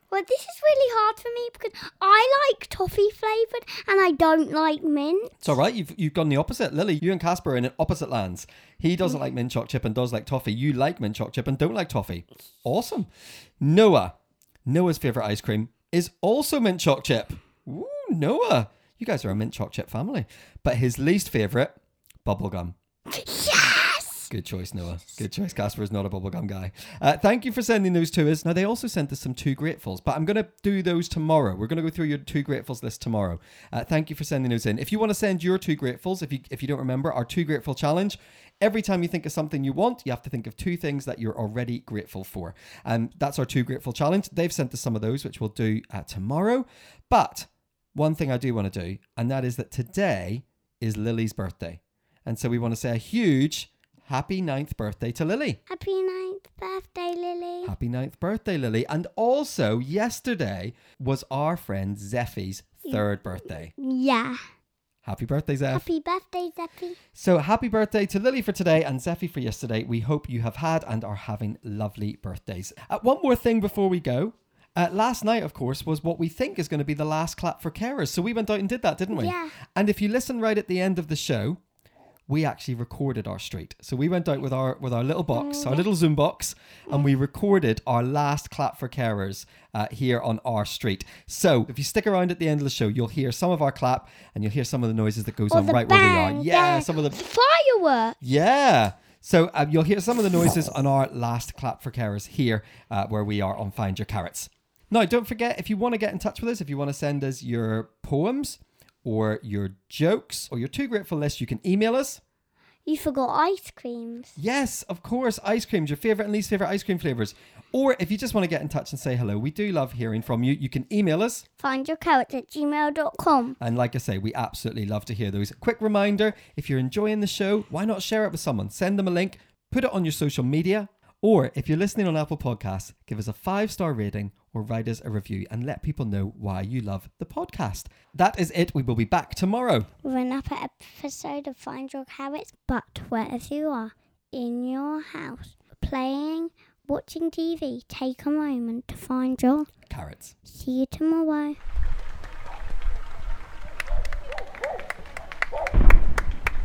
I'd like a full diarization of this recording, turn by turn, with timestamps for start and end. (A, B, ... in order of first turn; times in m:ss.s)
0:00.1-0:05.6 A
0:05.4-0:13.1 B
0:13.6-0:14.1 B
0:14.7-0:22.7 B
0:23.1-0:24.2 A
0:24.3-0:55.6 B
0:55.7-0:57.7 A
0:57.6-1:03.7 B
1:02.8-1:04.4 A
1:05.0-1:05.8 B
1:05.7-1:07.0 A
1:07.1-1:21.6 B
1:19.1-1:19.5 A
1:22.3-1:37.2 B
1:25.3-1:25.9 A
1:35.5-1:38.2 A
1:38.2-1:52.2 B
1:52.8-1:54.4 A
1:54.4-2:01.4 B
2:01.6-2:03.6 A
2:03.6-2:19.9 B
2:20.0-2:29.7 A
2:29.9-2:30.3 B
2:30.4-2:31.6 A